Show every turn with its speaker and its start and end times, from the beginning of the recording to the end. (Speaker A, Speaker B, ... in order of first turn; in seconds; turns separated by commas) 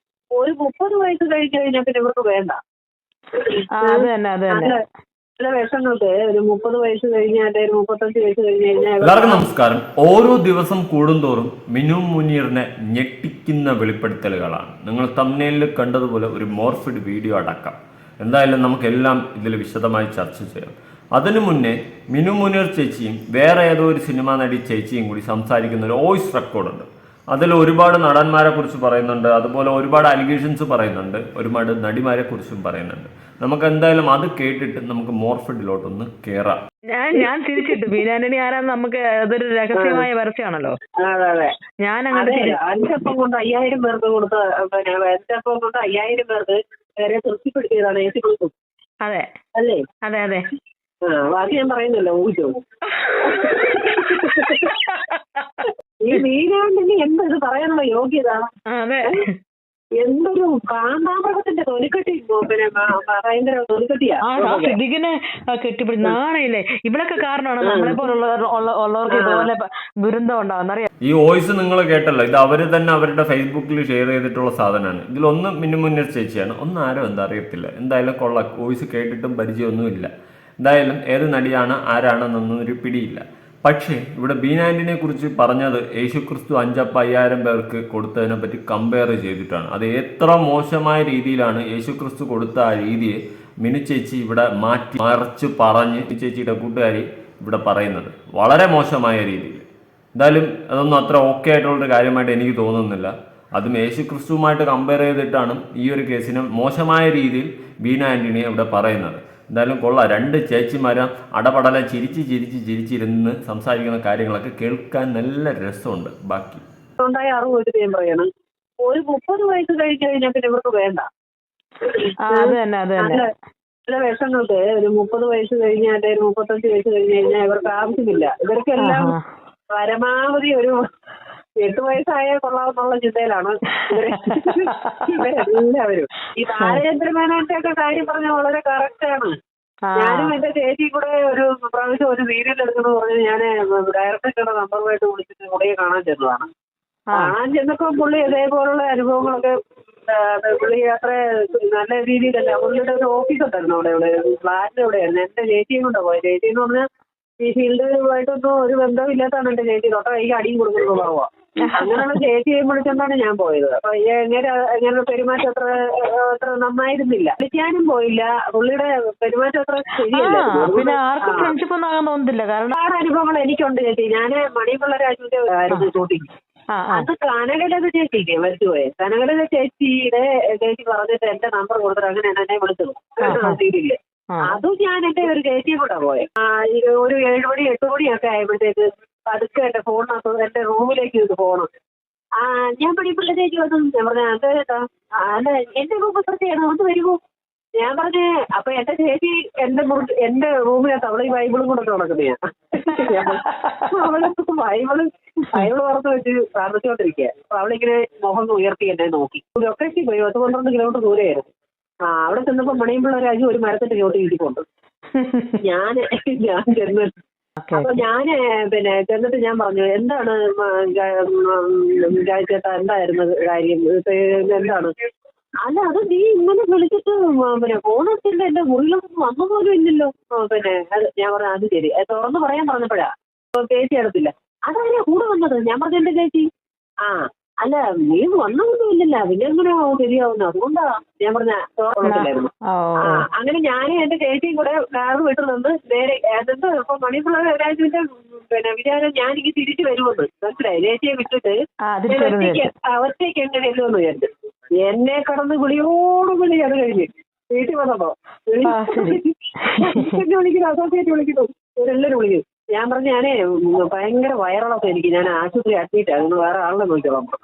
Speaker A: 0.4-2.6, Speaker A: 3.4-4.8, Speaker B: 3.8-4.7, Speaker A: 5.4-9.4, Speaker C: 9.0-36.6, Speaker B: 37.0-40.8, Speaker A: 37.2-38.0, Speaker A: 39.8-40.1, Speaker A: 41.0-41.5, Speaker B: 41.9-42.6, Speaker A: 42.1-48.5, Speaker B: 50.1-50.4, Speaker A: 51.1-52.5, Speaker B: 52.9-56.2, Speaker A: 53.2-54.7, Speaker A: 56.0-58.5, Speaker B: 58.7-59.3, Speaker A: 60.0-64.8, Speaker B: 64.3-70.9, Speaker A: 67.6-68.0, Speaker A: 69.1-69.5, Speaker C: 71.0-80.1, Speaker C: 80.6-99.7, Speaker C: 100.2-116.6, Speaker A: 117.0-118.3, Speaker A: 118.8-121.1, Speaker A: 121.9-123.3, Speaker B: 122.3-123.2, Speaker A: 123.9-129.1, Speaker B: 128.8-129.2, Speaker A: 129.8-130.8, Speaker A: 131.6-139.3, Speaker B: 133.9-135.2, Speaker B: 139.9-140.3, Speaker A: 140.0-146.5, Speaker A: 147.2-149.5, Speaker A: 150.1-156.8, Speaker A: 157.4-171.5, Speaker B: 161.6-162.2, Speaker B: 170.1-172.8, Speaker A: 172.8-176.3, Speaker B: 176.7-177.1, Speaker A: 176.9-191.7, Speaker B: 183.2-183.6, Speaker B: 184.3-184.6, Speaker A: 192.4-197.2, Speaker A: 197.8-211.5, Speaker B: 202.9-203.9, Speaker A: 212.1-214.6, Speaker B: 215.2-215.6, Speaker A: 215.6-217.1, Speaker B: 217.6-217.9, Speaker A: 217.7-224.9, Speaker A: 225.6-236.5, Speaker A: 237.0-242.5, Speaker B: 242.1-243.2, Speaker A: 243.0-251.6, Speaker B: 251.9-252.6, Speaker A: 252.1-254.3, Speaker A: 254.8-267.3, Speaker B: 258.6-260.2